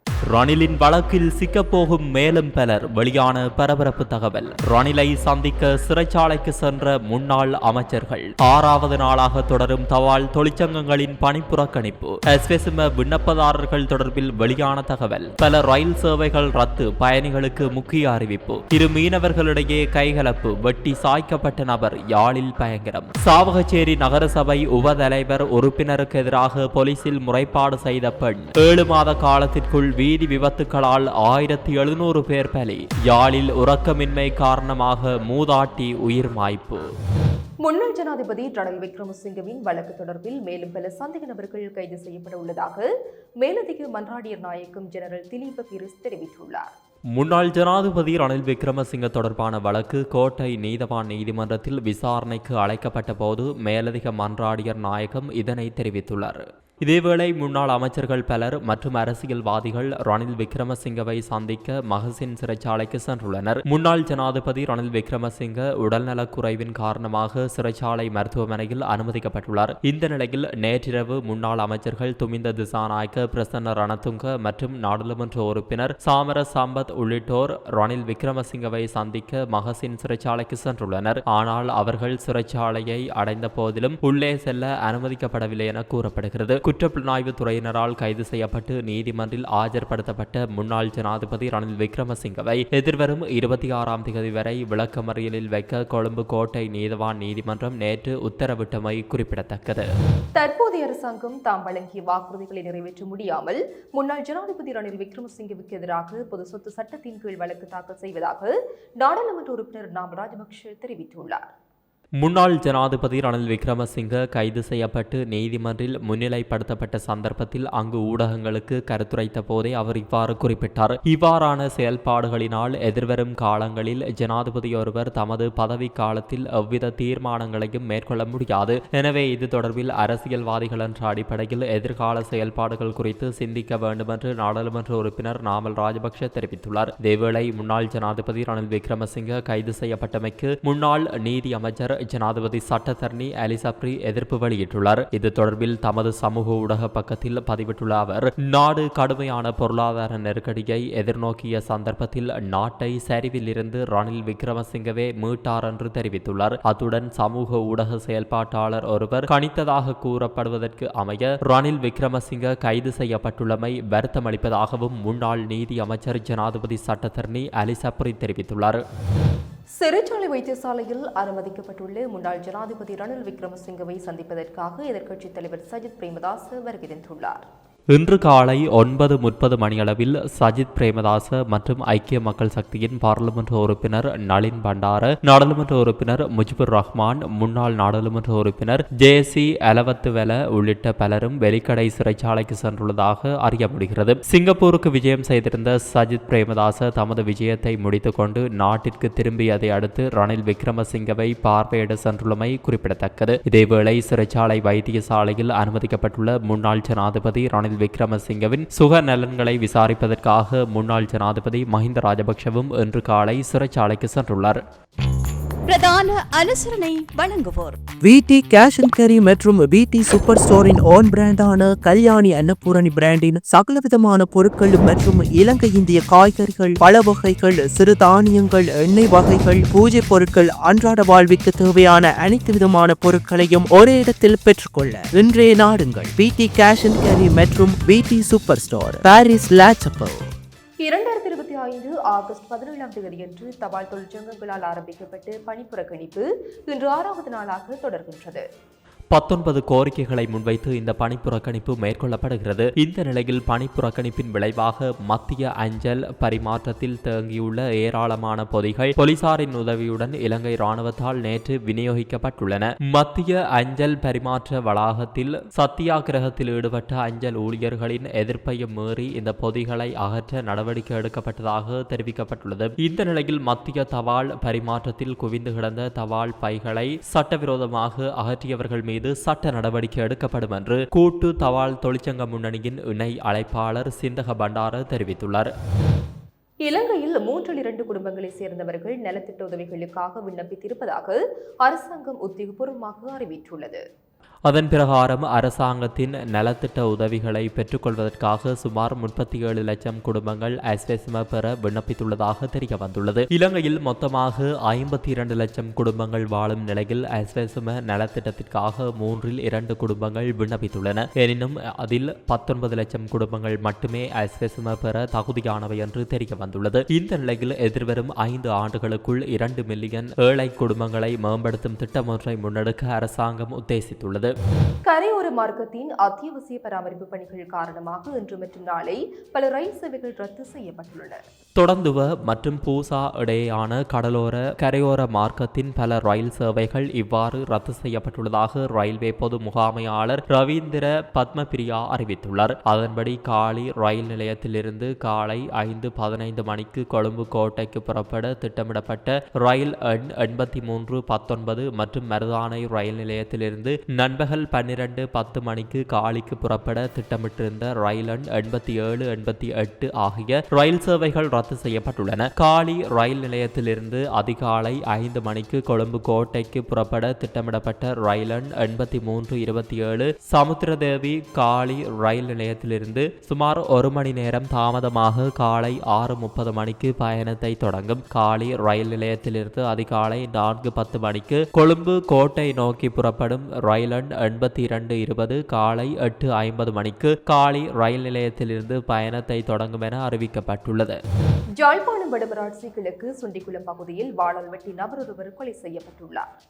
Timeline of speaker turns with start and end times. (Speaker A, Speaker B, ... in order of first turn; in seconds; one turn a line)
Speaker A: 0.3-36.9
Speaker B: 37.6-42.9
Speaker B: 43.4-46.7
Speaker A: 47.1-99.8
Speaker B: 100.3-111.5
Speaker A: 112.2-168.8
Speaker B: 169.8-177.4
Speaker A: 177.9-214.6
Speaker C: 215.7-217.8
Speaker D: 218.0-240.3
Speaker B: 240.8-248.4
Speaker A: 249.1-285.5
Speaker B: 286.6-293.8
Speaker A: 294.5-324.3
Speaker B: 324.9-331.2
Speaker A: 331.6-391.0
Speaker B: 391.6-396.2